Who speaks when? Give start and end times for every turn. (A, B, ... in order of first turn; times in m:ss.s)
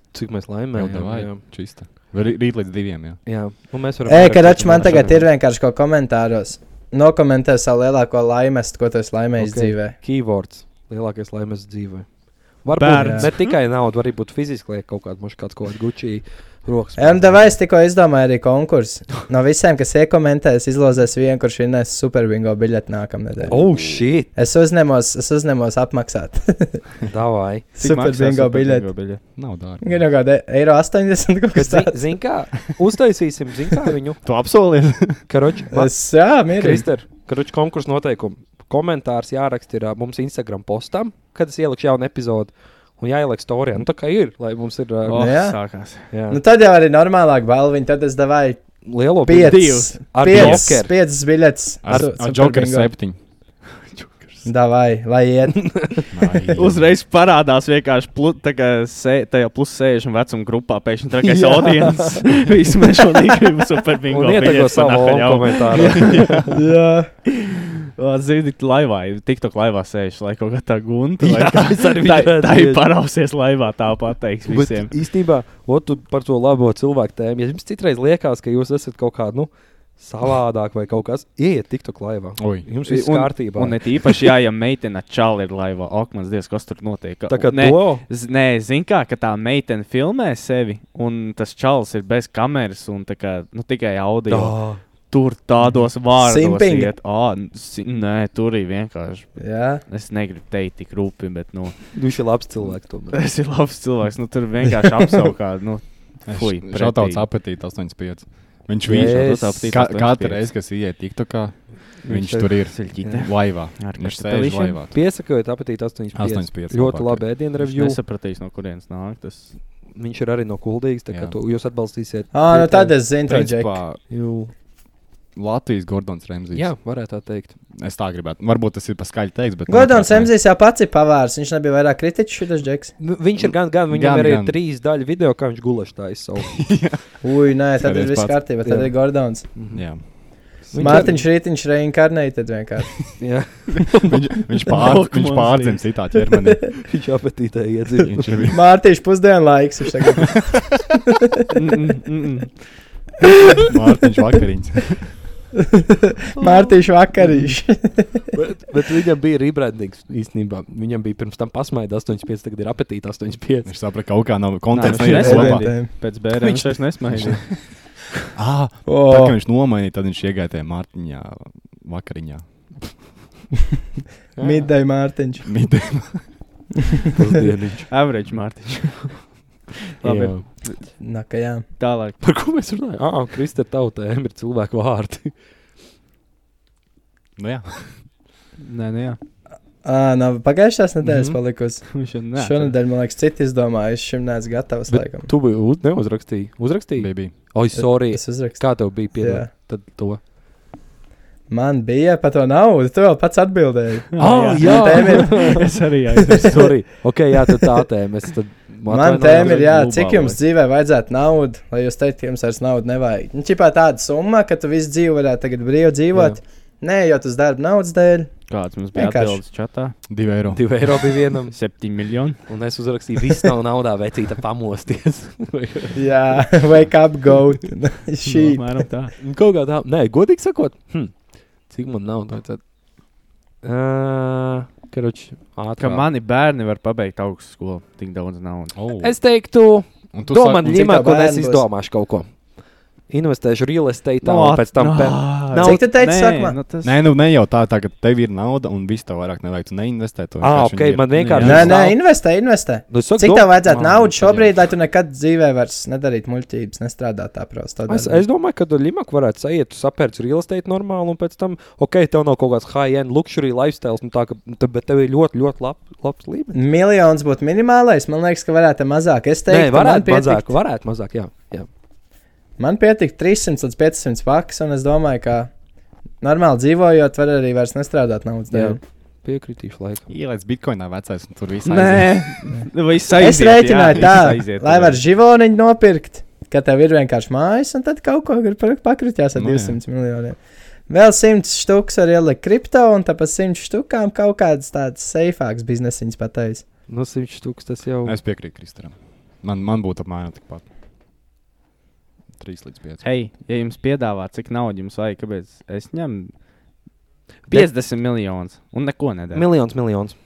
0:00.1-0:01.4 A
0:00.7-0:03.2 B
0:03.2-0:05.2 A
0:04.0-0:10.0 C
0:04.8-0:05.2 D
0:09.4-0:17.5 A
0:12.8-0:13.6 D
0:13.0-0:13.3 C
0:17.0-0:27.0 C
0:23.5-0:24.3 A
0:27.1-0:27.6 A
0:27.7-0:28.9 C
0:27.8-0:29.2 D
0:29.3-0:30.0 B
0:29.8-0:32.2 C
0:31.5-0:34.2 A
0:34.2-0:35.2 B
0:35.3-0:36.0 A
0:35.7-0:36.9 C
0:36.5-0:45.3 A
0:45.1-0:46.1 D
0:45.1-0:45.6 C
0:46.1-0:46.4 A
0:46.3-0:48.6 C
0:48.8-0:50.9 A
0:49.2-0:52.9 C
0:49.4-0:50.0 D
0:50.3-0:50.7 B
0:51.8-0:53.2 B
0:53.9-0:54.4 D
0:54.4-0:56.0 C
0:55.7-0:56.0 A
0:56.1-0:57.0 B
0:56.6-1:06.4 D
1:01.2-1:02.3 A
1:04.1-1:06.4 A
1:06.0-1:06.5 B
1:06.5-1:07.1 C
1:07.3-1:14.9 D
1:11.2-1:12.9 A
1:14.5-1:24.0 A
1:22.4-1:22.6 B
1:22.8-1:41.9 D
1:27.3-1:28.0 A
1:34.3-1:34.8 A
1:36.1-1:36.9 C
1:39.4-1:39.8 C
1:41.9-1:43.2 A
1:43.1-1:47.3 D
1:46.3-1:55.0 B
1:48.8-1:49.8 A
1:49.0-1:50.5 D
1:52.0-1:53.2 A
1:52.7-1:54.8 D
1:54.9-1:58.0 A
1:56.1-1:57.2 B
1:57.6-1:59.5 D
1:59.9-2:03.0 A
2:01.1-2:01.3 B
2:02.3-2:03.8 C
2:03.2-2:04.0 B
2:04.1-2:04.5 A
2:05.4-2:06.7 B
2:06.5-2:07.5 A
2:07.7-2:10.3 B
2:09.7-2:12.9 C
2:13.0-2:16.6 A
2:13.4-2:14.6 B
2:16.6-2:17.2 B
2:17.2-2:19.5 C
2:17.7-2:18.4 B
2:18.6-2:21.2 A
2:19.7-2:20.0 B
2:20.6-2:21.0 B
2:20.8-2:23.1 C
2:23.2-2:24.2 A
2:24.0-2:26.8 B
2:24.7-2:25.9 D
2:26.9-2:28.4 A
2:28.0-2:28.6 B
2:28.5-2:30.6 C
2:31.6-2:32.6 D
2:33.6-2:35.1 B
2:36.3-2:38.2 C
2:36.4-2:37.5 A
2:38.3-2:43.7 A
2:43.6-2:45.7 B
2:44.7-2:47.7 D
2:45.0-2:45.9 C
2:46.3-2:47.4 A
2:48.3-2:52.4 B
2:48.8-2:49.3 C
2:54.4-2:54.7 A
2:54.4-2:55.5 C
2:55.4-2:56.3 B
2:57.1-2:57.9 A
2:57.9-2:59.4 D
3:00.0-3:00.9 D
3:00.0-3:00.4 A
3:01.0-3:01.6 C
3:01.8-3:02.2 D
3:02.2-3:05.3 A
3:07.4-3:08.0 B
3:08.6-3:09.2 D
3:09.8-3:15.3 C
3:11.0-3:11.4 A
3:11.9-3:12.7 D
3:14.9-3:20.2 A
3:17.0-3:17.3 B
3:17.8-3:19.5 C
3:21.5-3:25.6 C
3:24.1-3:26.9 D
3:24.2-3:25.6 A
3:26.4-3:29.7 A
3:28.9-3:38.3 C
3:29.3-3:30.4 D
3:36.1-3:36.4 A
3:38.5-3:40.0 D
3:38.9-3:39.4 C
3:40.1-3:40.8 B
3:40.5-3:41.6 A
3:41.5-3:42.5 D
3:42.5-3:46.0 A
3:45.9-3:48.8 C
3:48.2-3:49.1 D
3:49.2-3:52.6 A
3:53.6-3:56.1 A
3:55.8-3:58.7 D
3:58.7-3:59.2 B
3:59.0-4:02.4 A
4:00.1-4:00.9 B
4:00.6-4:01.7 C
4:03.1-4:05.8 A
4:04.2-4:07.0 D
4:05.6-4:06.6 C
4:06.8-4:11.8 B
4:10.4-4:12.0 A
4:11.1-4:11.7 D
4:11.4-4:18.2 C
4:12.9-4:13.9 A
4:17.9-4:26.6 A
4:26.5-4:30.5 C
4:29.5-4:31.7 A
4:32.6-4:35.5 C
4:36.2-4:38.8 C
4:38.5-4:40.1 A
4:40.1-4:42.3 B
4:41.6-4:45.0 D
4:43.2-4:56.6 C
4:49.3-4:49.8 B
4:56.9-4:58.2 A
4:58.0-5:00.6 B
5:02.4-5:03.0 B
5:03.0-5:06.3 D
5:07.5-5:09.8 D
5:09.3-5:10.1 A